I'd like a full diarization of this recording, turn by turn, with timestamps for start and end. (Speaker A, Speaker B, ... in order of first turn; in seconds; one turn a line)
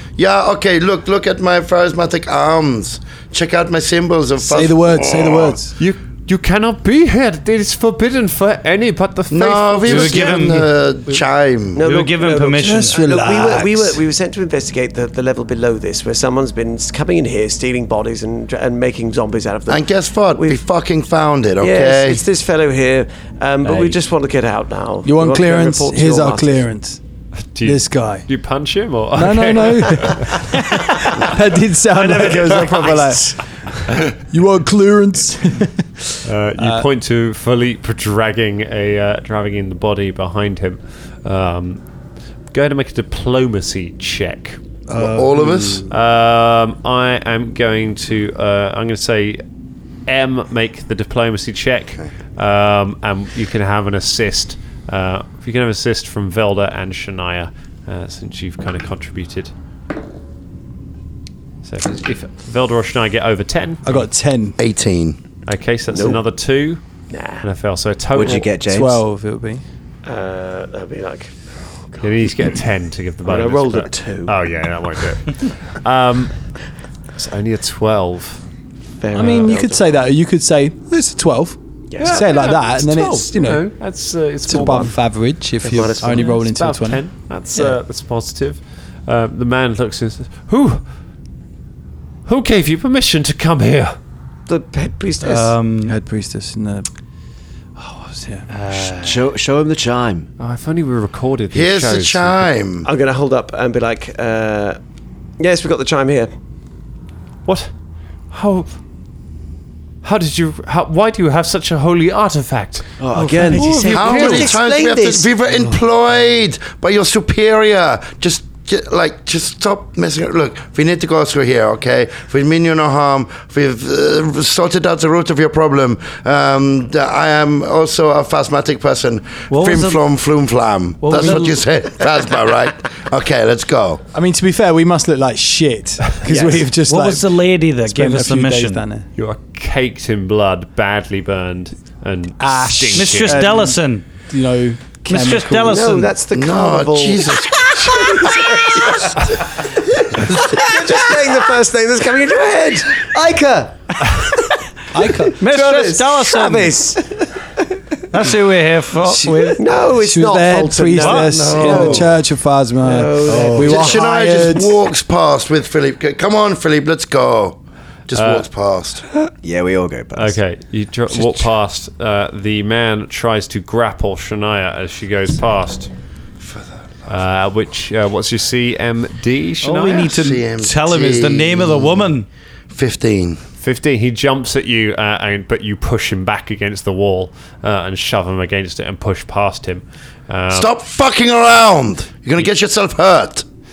Speaker A: 0.2-5.6
Speaker B: 4.4-5.7
Speaker C: 5.8-10.4
Speaker A: 9.3-11.8
Speaker D: 9.9-10.7
Speaker E: 11.7-20.6
Speaker D: 11.8-13.0
Speaker B: 12.6-14.0
Speaker A: 19.7-22.2
Speaker E: 21.6-26.7
Speaker B: 25.1-27.0
Speaker C: 27.5-30.5
Speaker B: 27.6-28.3
Speaker B: 29.1-33.3
Speaker D: 31.9-33.1
Speaker E: 32.6-33.1
Speaker B: 33.9-35.9
Speaker C: 36.2-41.8
Speaker B: 36.6-36.8
Speaker C: 42.5-44.6
Speaker B: 44.9-45.9
Speaker A: 44.9-45.9
Speaker C: 45.9-49.4
Speaker C: 50.1-59.5
Speaker C: 61.6-64.1
Speaker B: 63.8-64.6
Speaker A: 64.6-65.2
Speaker C: 65.5-66.8
Speaker E: 65.9-66.2
Speaker E: 67.1-67.5
Speaker C: 67.4-68.5
Speaker F: 68.1-69.0
Speaker B: 68.6-69.6
Speaker E: 70.0-72.3
Speaker C: 72.0-76.3
Speaker E: 73.2-74.3
Speaker C: 77.2-78.4
Speaker E: 79.0-80.0
Speaker B: 79.1-83.7
Speaker E: 81.9-82.8
Speaker C: 82.0-85.0
Speaker B: 84.5-87.0
Speaker E: 85.6-86.4
Speaker C: 86.0-90.8
Speaker C: 92.3-94.0
Speaker E: 94.5-95.5
Speaker D: 95.2-96.0
Speaker B: 95.8-96.9
Speaker B: 97.8-98.5
Speaker D: 98.5-99.3
Speaker F: 98.8-100.3
Speaker C: 100.4-102.5
Speaker A: 101.5-102.9
Speaker E: 102.8-104.8
Speaker E: 105.4-106.3
Speaker C: 107.5-107.7
Speaker C: 108.3-108.7
Speaker C: 110.0-113.0
Speaker F: 113.0-114.5
Speaker E: 113.1-115.3
Speaker C: 113.5-114.5
Speaker A: 113.9-134.0
Speaker D: 129.5-130.0
Speaker D: 131.0-131.6
Speaker B: 131.1-131.5
Speaker B: 134.1-139.1
Speaker F: 136.3-136.6
Speaker D: 136.8-138.8
Speaker C: 139.2-143.6
Speaker B: 142.4-146.0
Speaker D: 142.9-144.1
Speaker D: 145.1-146.1
Speaker E: 145.6-153.2
Speaker A: 146.3-148.2
Speaker F: 150.6-151.7
Speaker F: 152.9-153.7
Speaker B: 154.9-155.4
Speaker D: 155.4-156.8
Speaker E: 155.5-157.0
Speaker D: 158.1-159.6
Speaker B: 159.1-164.8
Speaker E: 159.6-162.2
Speaker D: 161.0-161.3
Speaker A: 161.3-162.1
Speaker E: 162.8-164.1
Speaker D: 163.3-163.6
Speaker A: 163.6-169.0
Speaker C: 168.1-168.4
Speaker F: 169.4-170.4
Speaker C: 170.2-175.9
Speaker F: 171.1-171.4
Speaker A: 176.4-176.7
Speaker C: 177.1-180.1
Speaker D: 179.6-182.3
Speaker A: 179.9-182.1
Speaker A: 182.7-183.4
Speaker C: 183.6-190.7
Speaker A: 190.5-193.4